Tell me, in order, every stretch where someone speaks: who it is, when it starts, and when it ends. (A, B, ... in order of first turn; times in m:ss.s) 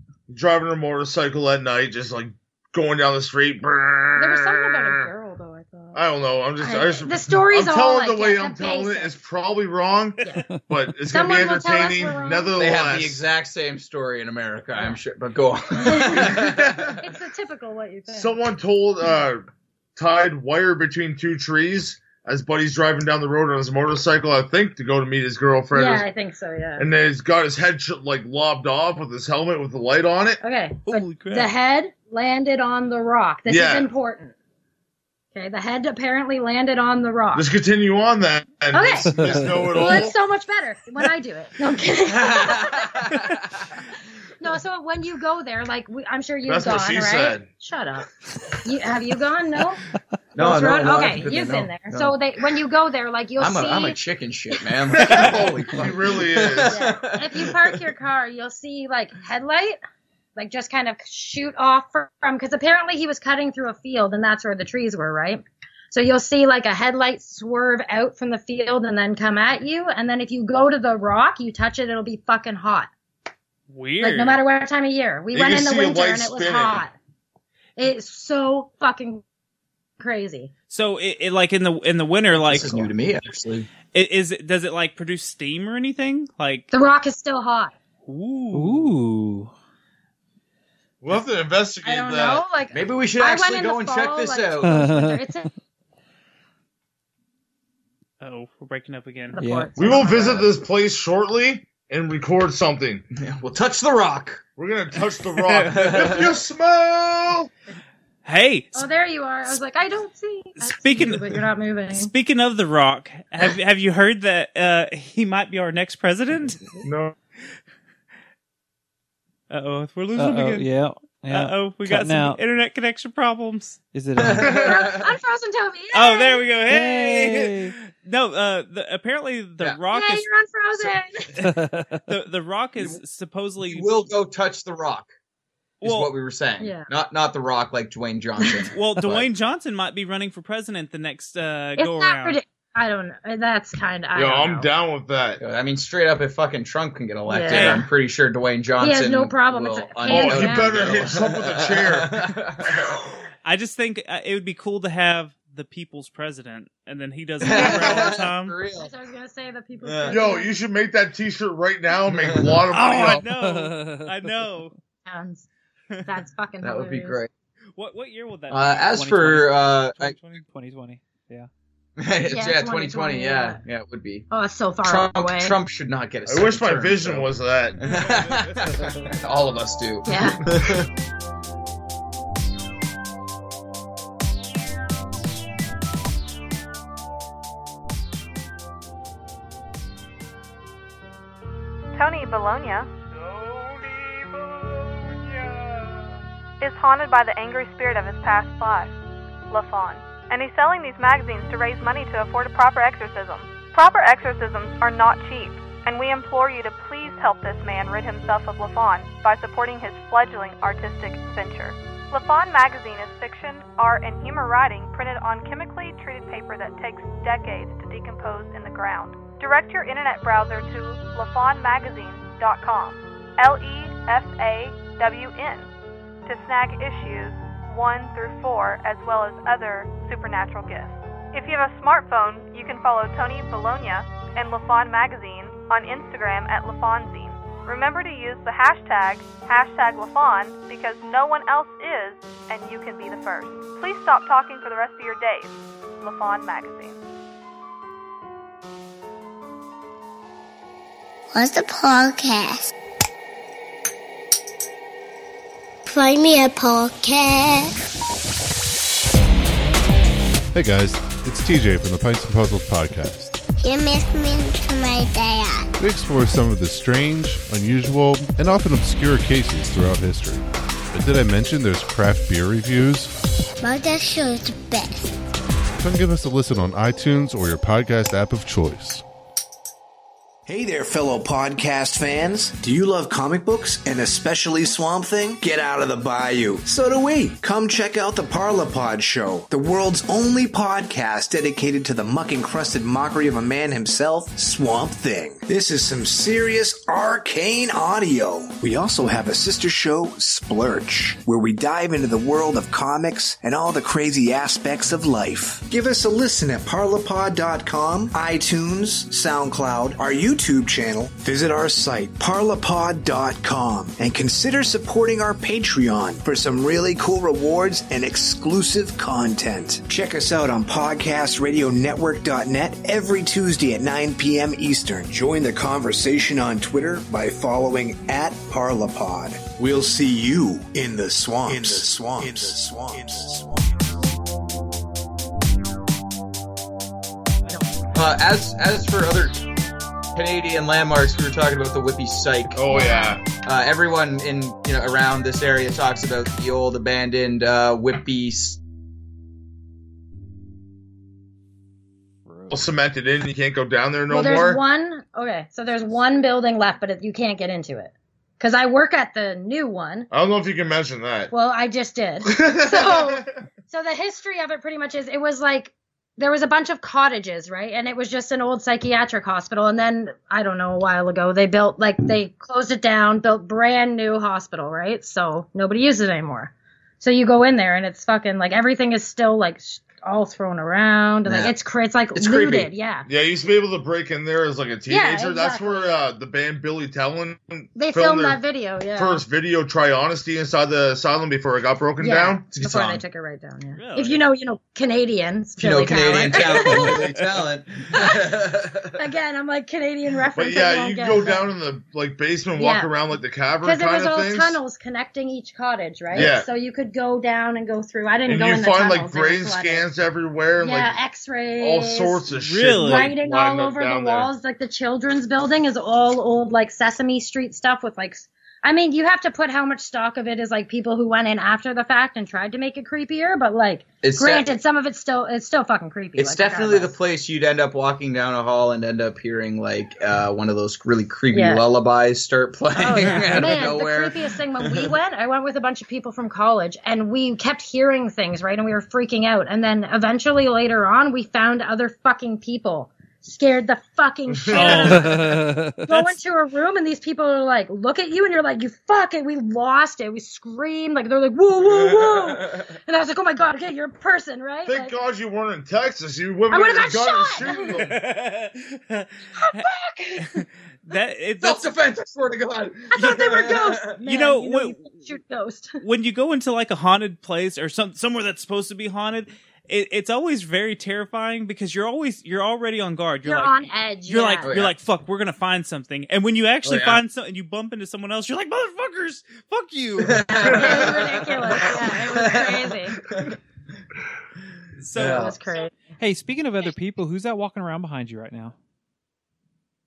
0:00.3-0:05.1 A
0:04.2-0:06.0 B
0:05.9-0:13.2 A
0:06.6-0:09.1 B
0:11.1-0:12.5 B
0:12.6-0:17.0 C
0:15.8-0:16.4 B
0:16.4-0:16.9 A
0:17.0-0:18.3 B
0:18.1-0:26.0 A
0:25.7-0:26.8 B
0:26.8-0:30.4 A
0:30.4-0:34.3 B
0:30.9-0:31.5 D
0:33.5-0:33.9 A
0:35.3-0:37.4 B
0:37.3-0:40.1 A
0:38.7-0:43.0 B
0:39.1-0:39.7 E
0:42.1-0:43.7 C
0:44.4-0:48.1 B
0:46.5-0:47.4 A
0:48.6-0:49.8 B
0:50.3-0:52.2 C
0:50.4-0:54.0 B
0:53.4-0:57.5 C
0:55.0-0:56.8 A
0:56.7-0:59.8 B
1:00.4-1:12.9 B
1:13.7-1:14.4 D
1:14.0-1:16.9 B
1:15.3-1:16.8 A
1:17.8-1:19.2 B
1:20.0-1:20.5 B
1:20.7-1:22.9 D
1:22.4-1:23.7 C
1:23.9-1:26.7 D
1:26.7-1:27.7 B
1:28.0-1:28.9 D
1:28.5-1:29.5 E
1:31.0-1:32.4 A
1:31.8-1:35.5 B
1:32.7-1:34.8 C
1:34.6-1:35.3 E
1:38.2-1:39.4 D
1:39.3-1:40.4 B
1:39.4-1:40.0 E
1:39.8-1:43.0 A
1:43.1-1:44.4 C
1:44.6-1:47.5 A
1:45.5-1:45.8 D
1:45.7-1:46.3 C
1:48.2-1:48.8 D
1:48.7-1:52.1 B
1:50.6-1:51.4 D
1:51.9-1:56.6 D
1:56.8-1:57.1 A
1:59.5-2:00.7 D
2:00.2-2:02.4 E
2:01.3-2:03.8 D
2:03.9-2:04.7 E
2:04.2-2:05.1 C
2:04.5-2:06.4 B
2:05.9-2:10.3 D
2:06.7-2:07.8 E
2:09.9-2:11.3 B
2:11.4-2:12.0 E
2:12.1-2:14.1 D
2:13.6-2:15.1 C
2:15.8-2:16.1 D
2:15.8-2:19.2 C
2:16.6-2:16.9 B
2:18.7-2:22.4 D
2:21.8-2:24.7 B
2:24.1-2:25.4 A
2:25.4-2:33.0 C
2:27.3-2:27.9 B
2:27.5-2:27.8 D
2:28.8-2:30.8 B
2:30.1-2:32.2 A
2:33.4-2:38.5 D
2:37.4-2:38.9 C
2:37.5-2:37.8 A
2:38.8-2:40.5 B
2:39.8-2:40.2 C
2:40.1-2:43.2 A
2:42.1-2:42.6 C
2:42.7-2:44.7 D
2:43.3-2:44.1 E
2:45.1-2:45.5 B
2:46.0-2:47.2 B
2:46.6-2:47.3 C
2:47.8-2:49.2 D
2:48.5-2:50.1 C
2:48.9-2:51.5 E
2:52.0-2:54.3 C
2:52.3-2:53.6 B
2:54.3-2:55.5 B
2:54.8-2:57.3 C
2:56.3-2:57.8 A
2:57.8-3:00.9 C
2:57.9-2:58.2 D
3:00.0-3:00.4 B
3:11.9-3:12.9 F
3:16.6-3:18.9 F
3:19.5-3:45.7 F
3:46.2-4:07.0 F
4:11.3-4:12.7 G
4:15.9-4:17.7 G
4:20.5-4:23.4 H
4:23.6-4:25.7 G
4:25.8-4:33.2 H
4:33.6-4:35.1 G
4:35.8-4:39.0 H
4:40.5-5:33.6 I
5:37.9-5:39.4 C
5:40.1-5:42.6 C
5:42.5-5:43.2 A
5:42.7-5:43.2 B
5:43.3-5:48.6 C
5:52.3-5:52.6 E
5:52.5-5:54.6 A
5:54.1-6:00.1 B
6:00.1-6:01.3 A
6:01.3-6:23.1 B
6:02.2-6:03.3 A
6:21.2-6:21.5 C
6:22.1-6:22.7 C
6:23.1-6:28.4 A
6:24.9-6:26.0 B
6:27.7-6:29.2 B
6:29.0-6:33.0 A
6:32.0-6:37.0 B
6:32.5-6:32.9 C
6:33.8-6:34.2 D
6:35.6-6:39.0 C
6:36.4-6:37.1 A
6:37.9-6:38.2 B
6:38.9-6:41.5 B
6:40.4-6:44.6 A
6:42.6-6:42.9 B
6:43.6-6:49.8 B
6:46.1-6:46.5 A
6:48.2-6:51.0 A
6:50.6-6:52.2 B
6:51.6-6:54.3 A
6:52.3-6:53.1 D
6:52.8-7:06.9 B
7:04.0-7:04.5 C
7:06.2-7:14.9 C
7:11.3-7:11.6 B
7:12.8-7:34.9 B
7:24.3-7:25.0 A
7:24.5-7:25.2 D
7:25.1-7:26.1 E
7:31.6-7:32.7 C
7:34.6-7:38.0 A
7:36.5-7:37.8 B
7:37.7-7:39.6 D
7:39.4-7:40.4 B
7:40.2-7:41.7 D
7:41.4-7:44.0 C
7:42.9-7:45.8 B
7:44.0-7:44.8 D
7:45.8-7:53.6 D
7:53.2-7:54.5 B
7:54.1-8:01.2 D
7:54.4-7:54.7 C
7:56.6-7:57.0 C
8:00.0-8:03.4 C
8:00.3-8:03.0 B
8:04.8-8:05.4 D
8:04.9-8:05.3 C
8:05.0-8:05.7 B
8:06.0-8:08.5 E